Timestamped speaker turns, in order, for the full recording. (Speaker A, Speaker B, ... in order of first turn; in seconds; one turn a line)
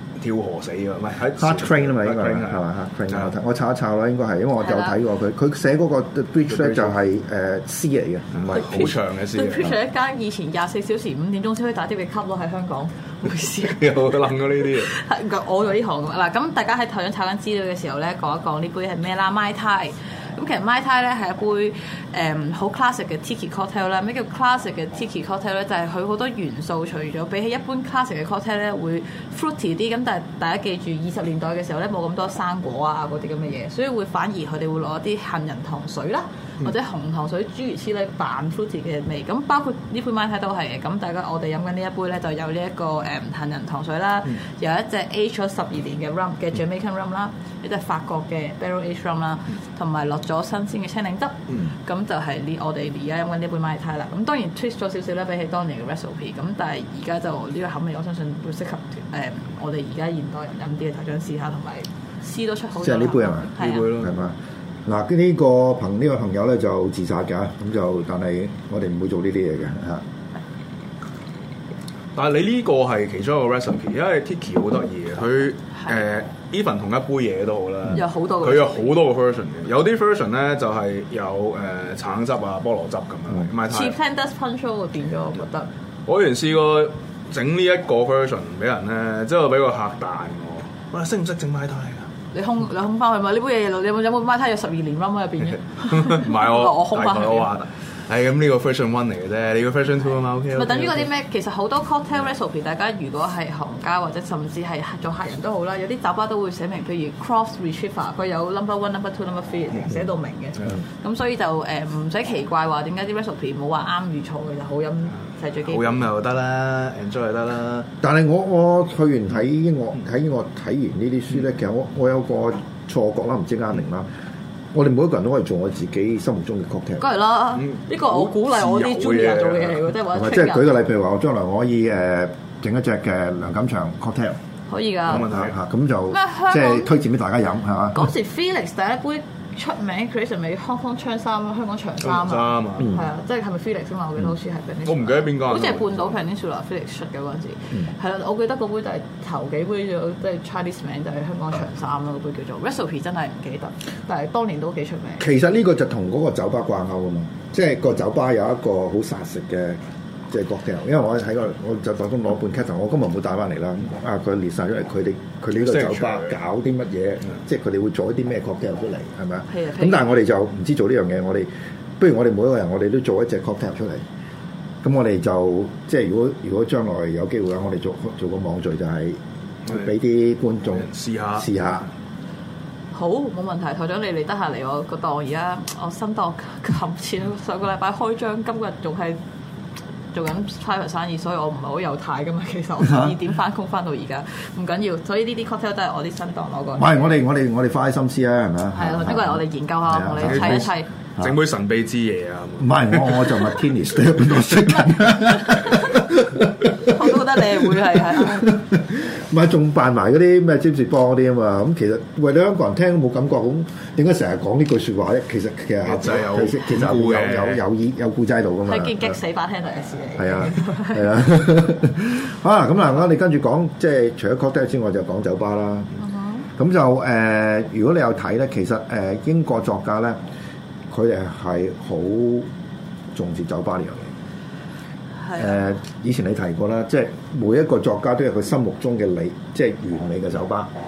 Speaker A: 0.2-3.3
Speaker B: 1.4-8.9
Speaker C: 4.6-5.0
Speaker A: 6.5-6.9
Speaker A: 8.4-9.8
Speaker C: 9.3-14.1
Speaker A: 13.6-14.9
Speaker C: 14.7-63.9
Speaker B: 62.8-70.0
Speaker A: 63.6-64.2
Speaker A: 72.2-84.0
Speaker C: 77.9-78.9
Speaker C: 83.7-85.7
Speaker A: 86.1-92.1
Speaker C: 92.3-97.5
Speaker A: 95.9-101.1
Speaker C: 100.5-116.0
Speaker A: 115.7-117.9
Speaker B: 118.0-124.1
Speaker B: 124.7-127.1
Speaker C: 127.0-130.7
Speaker A: 127.6-129.9
Speaker B: 130.1-134.4
Speaker C: 134.7-135.3
Speaker A: 135.1-135.5
Speaker B: 135.1-138.1
Speaker C: 136.1-136.9
Speaker C: 137.9-155.3
Speaker A: 142.0-142.9
Speaker A: 144.9-146.2
Speaker B: 155.2-171.5
Speaker A: 165.6-166.3
Speaker C: 169.5-170.1
Speaker B: 172.0-174.0
Speaker B: 174.8-181.9
Speaker A: 180.8-181.5
Speaker C: 182.9-189.2
Speaker C: 190.1-197.1
Speaker B: 196.8-201.3
Speaker C: 198.7-200.9
Speaker A: 200.2-203.5
Speaker B: 202.6-207.2
Speaker C: 206.8-208.5
Speaker B: 208.2-219.2
Speaker A: 215.8-217.6
Speaker C: 218.7-221.1
Speaker B: 220.2-226.0
Speaker C: 226.0-226.4
Speaker B: 226.6-230.2
Speaker B: 230.9-232.5
Speaker B: 233.1-234.1
Speaker B: 235.3-240.7